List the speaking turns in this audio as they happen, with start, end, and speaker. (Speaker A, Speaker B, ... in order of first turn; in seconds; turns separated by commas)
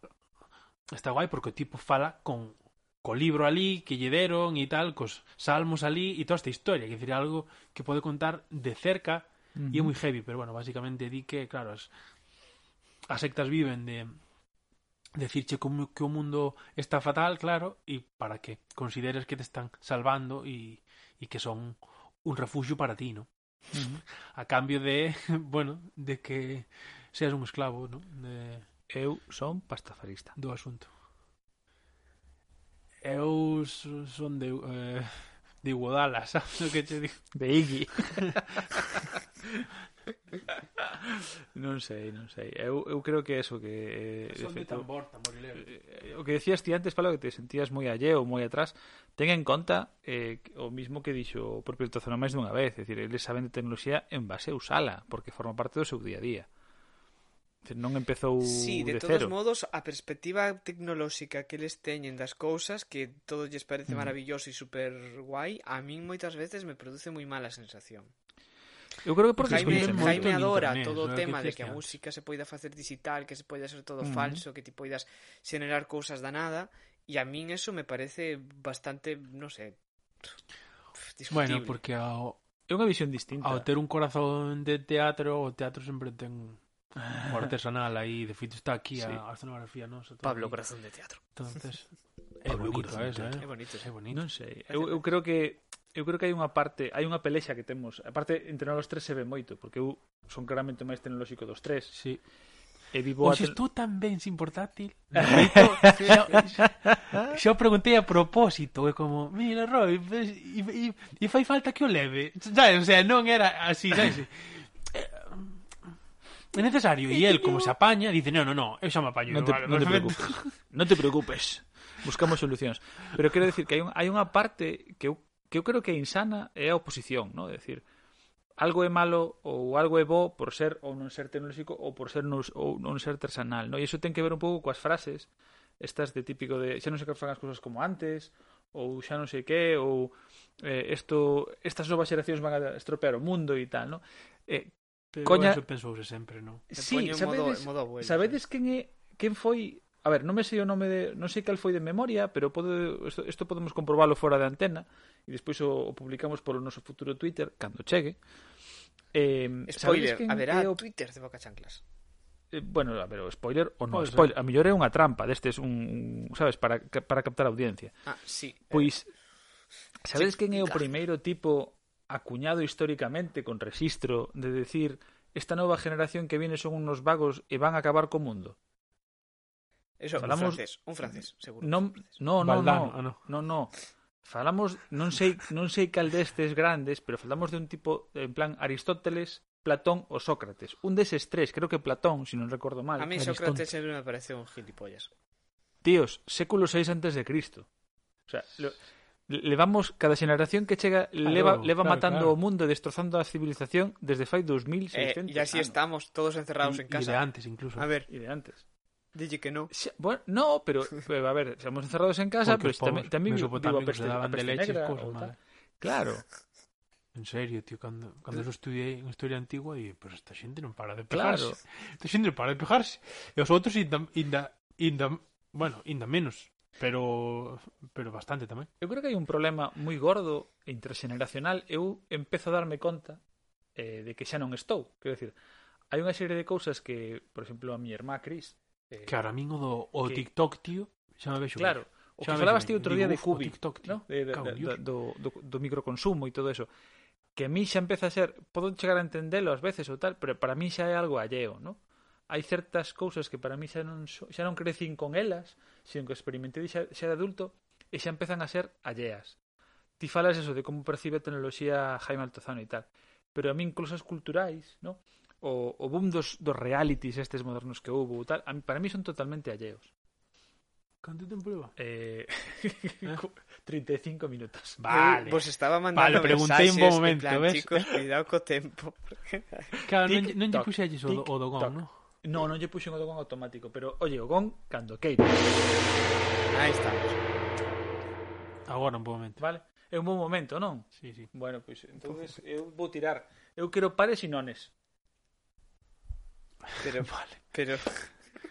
Speaker A: 0.9-11.9, Speaker B: 9.6-9.9, Speaker A: 13.1-14.2, Speaker A: 15.2-23.3, Speaker B: 23.7-24.0, Speaker A: 24.3-28.7, Speaker B: 28.9-30.4, Speaker A: 30.4-30.9, Speaker A: 33.0-37.3, Speaker B: 37.3-39.6, Speaker A: 38.1-39.0, Speaker B: 40.5-44.9, Speaker A: 44.3-45.7, Speaker B: 45.6-56.5, Speaker B: 57.6-59.3, Speaker C: 58.4-68.1, Speaker B: 63.9-64.1, Speaker B: 69.0-70.3, Speaker A: 69.4-71.9, Speaker C: 69.5-80.4, Speaker B: 74.0-74.4, Speaker C: 81.0-81.8, Speaker A: 81.3-82.4, Speaker B: 82.7-83.7, Speaker A: 83.4-86.6, Speaker B: 87.0-87.5, Speaker A: 87.2-90.6, Speaker B: 89.0-89.2, Speaker C: 90.2-91.2, Speaker A: 91.3-94.2, Speaker B: 92.5-93.4, Speaker C: 93.4-93.9, Speaker B: 94.1-102.0, Speaker C: 94.7-95.0, Speaker A: 102.0-102.2, Speaker B: 102.9-103.6, Speaker A: 103.2-115.7, Speaker B: 105.2-107.3, Speaker A: 116.5-120.5, Speaker B: 119.3-127.8, Speaker B: 128.6-135.3, Speaker B: 135.8-145.6, Speaker A: 145.1-146.7, Speaker B: 146.7-158.2, Speaker C: 146.8-148.4, Speaker B: 159.1-160.8, Speaker C: 159.7-161.8, Speaker B: 162.5-167.9, Speaker A: 163.9-164.3, Speaker C: 168.1-168.9, Speaker B: 168.7-169.1, Speaker B: 170.1-178.6, Speaker C: 170.1-170.9, Speaker C: 180.0-182.2, Speaker B: 180.2-193.2, Speaker A: 182.4-183.2, Speaker C: 193.0-195.1, Speaker A: 193.2-193.7, Speaker B: 195.8-197.7, Speaker B: 198.3-205.8, Speaker A: 201.2-202.4, Speaker C: 204.9-207.2, Speaker A: 206.6-207.9, Speaker C: 207.8-208.1, Speaker B: 208.1-208.6, Speaker C: 209.1-209.7, Speaker B: 209.7-216.2, Speaker A: 212.4-215.4, Speaker A: 217.2-228.7, Speaker B: 221.1-221.6, Speaker B: 228.8-233.2, Speaker B: 233.8-235.3, Speaker B: 235.9-239.1, Speaker A: 239.1-244.8, Speaker B: 241.6-246.7, Speaker B: 247.4-259.4, Speaker B: 260.0-269.9, Speaker A: 271.0-271.7, Speaker B: 271.8-274.8, Speaker A: 274.8-277.9, Speaker C: 274.9-279.8, Speaker A: 279.9-281.9, Speaker B: 280.1-285.6, Speaker C: 286.5-287.3, Speaker A: 288.7-289.4, Speaker B: 289.4-294.7, Speaker A: 291.0-291.3, Speaker C: 296.8-298.1, Speaker A: 297.0-297.4